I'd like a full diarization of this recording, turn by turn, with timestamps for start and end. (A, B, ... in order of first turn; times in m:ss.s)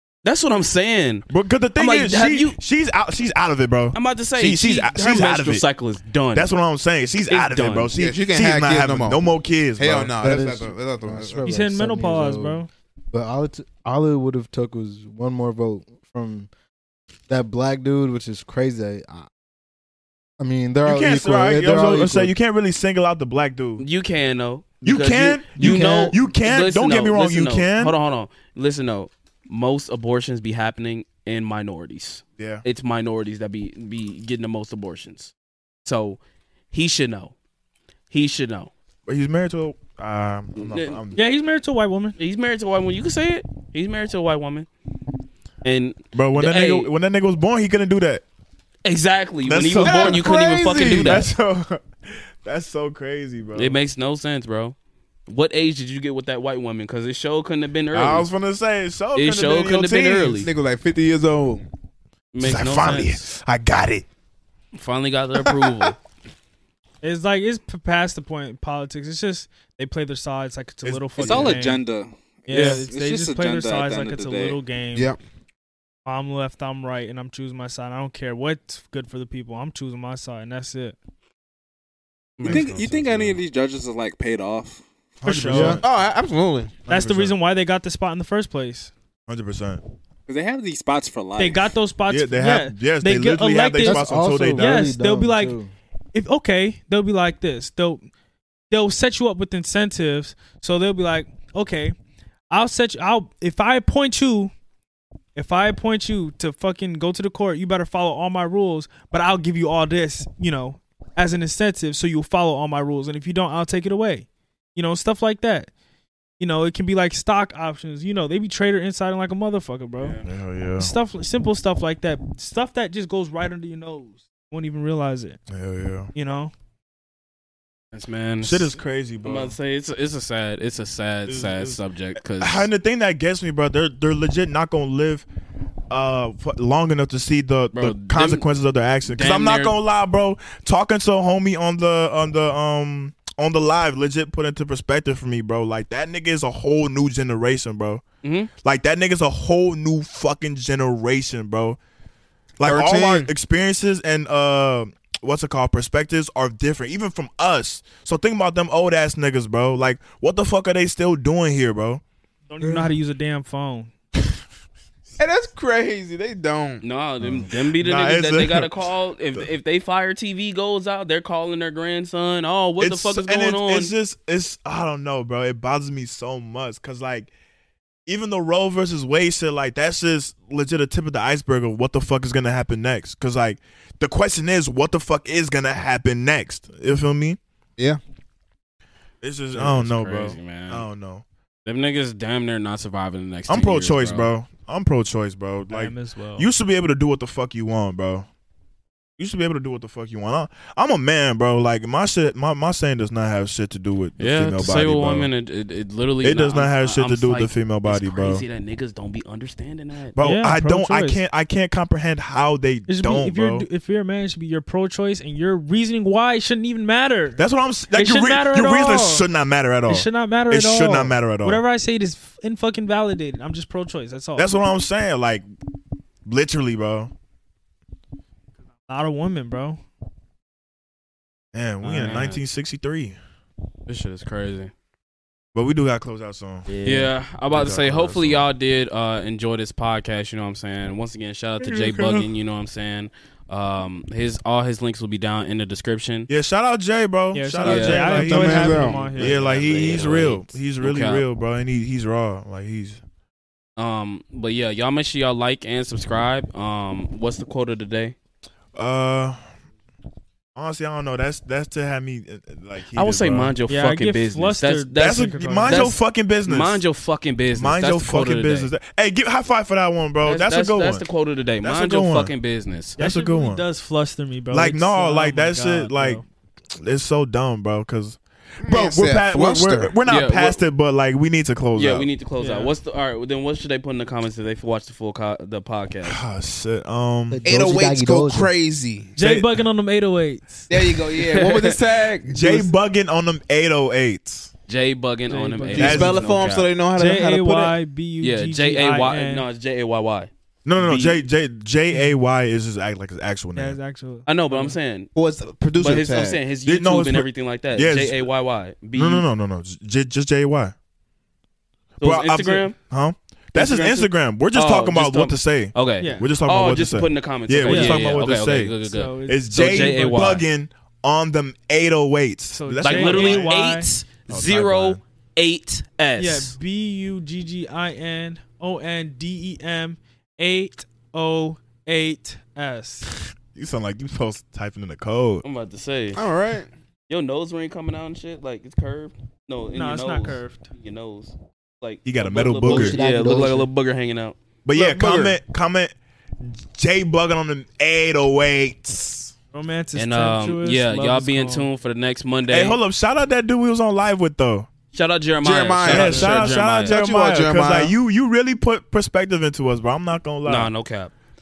0:00.2-0:02.6 A
0:01.3-0:05.6 B
0:03.9-0:06.5 A
0:06.3-0:10.1 B
0:07.3-0:07.9 A
0:07.9-0:09.3 C
0:09.8-0:11.4 C
0:10.2-0:16.5 D
0:11.4-0:12.7 E
0:17.3-0:19.3 D
0:20.4-0:22.4 D
0:20.8-0:23.8 B
0:23.8-0:35.3 A
0:24.8-0:27.9 B
0:25.6-0:26.2 C
0:32.4-0:32.6 B
0:35.8-0:36.2 A
0:36.7-0:37.3 A
0:38.1-0:38.7 A
0:39.1-0:41.2 B
0:40.6-0:41.0 A
0:41.2-0:42.2 E
0:42.2-0:44.7 A
0:45.6-0:46.9 A
0:46.1-0:48.2 B
0:48.8-0:51.3 A
0:49.4-0:53.8 B
0:49.8-0:51.3 C
0:53.6-0:54.8 A
0:55.3-0:58.3 A
0:57.9-1:00.5 B
0:59.2-1:00.5 A
1:00.4-1:01.6 C
1:02.3-1:03.2 A
1:02.4-1:04.1 B
1:04.8-1:06.0 A
1:07.0-1:11.8 E
1:10.8-1:11.6 B
1:11.2-1:14.6 F
1:12.5-1:15.1 E
1:14.9-1:15.2 C
1:16.1-1:21.0 E
1:22.4-1:22.7 A
1:22.5-1:23.4 B
1:22.5-1:24.8 F
1:25.2-1:25.8 B
1:25.2-1:25.8 E
1:25.5-1:25.8 D
1:25.8-1:26.8 C
1:26.9-1:28.9 E
1:26.9-1:27.4 B
1:29.3-1:29.8 B
1:30.3-1:31.8 F
1:31.4-1:35.6 E
1:32.1-1:34.9 B
1:33.8-1:35.7 D
1:36.1-1:38.0 E
1:38.7-1:42.0 E
1:42.5-1:44.5 E
1:45.4-1:55.7 E
1:56.4-2:00.2 E
2:00.0-2:00.2 A
2:00.2-2:00.9 B
2:00.8-2:05.4 E
2:05.5-2:06.1 B
2:06.2-2:06.5 E
2:07.9-2:12.7 A
2:08.4-2:09.6 B
2:11.3-2:15.2 B
2:15.9-2:28.0 B
2:17.7-2:18.5 A
2:19.1-2:19.8 A
2:28.2-2:28.5 A
2:28.6-2:31.8 B
2:32.6-2:42.0 B
2:32.6-2:33.3 C
2:42.5-2:43.9 E
2:45.2-2:46.8 C
2:46.8-2:53.9 A
2:47.2-2:49.5 B
2:52.8-2:57.3 B
2:58.1-3:07.4 B
3:09.2-3:11.2 B
3:09.6-3:10.9 A
3:11.6-3:14.3 A
3:13.5-3:18.3 B
3:15.7-3:16.5 E
3:19.2-3:25.3 B
3:24.2-3:30.2 A
3:26.2-3:28.4 B
3:30.2-3:33.7 B
3:30.2-3:31.2 E
3:32.9-3:37.4 E
3:37.4-3:41.6 B
3:37.9-3:39.3 E
3:39.9-3:44.5 E
3:44.4-3:45.4 B
3:46.2-3:47.1 B
3:48.9-3:49.8 E
3:51.5-3:53.2 B
3:51.8-3:52.4 A
3:53.9-3:54.7 A
3:55.6-3:56.7 B
3:56.8-4:06.3 A
3:57.5-3:58.5 B
4:01.6-4:02.3 B
4:06.3-4:13.0 B
4:07.3-4:09.7 E
4:07.6-4:11.3 A
4:08.2-4:09.0 C
4:13.8-4:18.2 A
4:18.8-4:19.4 B
4:20.6-4:23.5 B
4:22.9-4:28.7 A
4:23.7-4:25.9 E
4:25.0-4:26.8 B
4:27.5-4:31.0 B
4:30.2-4:33.0 A
4:31.6-4:32.3 B
4:33.0-4:33.6 B
4:33.0-4:36.2 E
4:34.5-4:36.2 B
4:36.8-4:42.1 B
4:38.6-4:39.9 C
4:40.1-4:40.6 A
4:41.8-4:46.2 A
4:42.4-4:42.7 E
4:46.0-4:47.5 B
4:47.3-4:48.5 D
4:47.4-4:49.2 C
4:49.2-4:50.7 E
4:49.2-4:49.6 B
4:50.7-4:52.7 C
4:51.2-4:51.8 A
4:52.3-4:54.5 B
4:54.7-4:56.7 A
4:55.3-4:56.2 E
4:55.7-4:57.8 C
4:55.8-4:56.2 B
4:57.0-4:59.5 E
4:58.2-5:01.2 A
5:00.6-5:03.8 B
5:03.6-5:04.8 E
5:04.3-5:05.1 A
5:05.2-5:06.4 C
5:05.8-5:09.3 A
5:06.7-5:08.3 B
5:09.0-5:10.8 B
5:12.0-5:12.8 A
5:12.0-5:23.5 B
5:13.5-5:20.4 A
5:16.0-5:16.3 E
5:17.7-5:18.2 E
5:18.9-5:20.4 E
5:22.5-5:23.9 E
5:22.8-5:26.6 A
5:24.3-5:25.0 B
5:26.2-5:33.1 E
5:33.1-5:35.4 B
5:35.4-5:36.2 A
5:36.2-5:36.7 C
5:37.1-5:45.4 A
5:39.7-5:40.7 E
5:42.0-5:43.0 B
5:42.6-5:43.7 D
5:44.6-5:49.3 B
5:49.5-5:51.7 E
5:50.0-5:52.8 A
5:52.5-5:54.7 B
5:54.9-5:57.0 A
5:55.4-5:57.9 C
5:55.8-6:00.7 B
6:00.5-6:01.1 A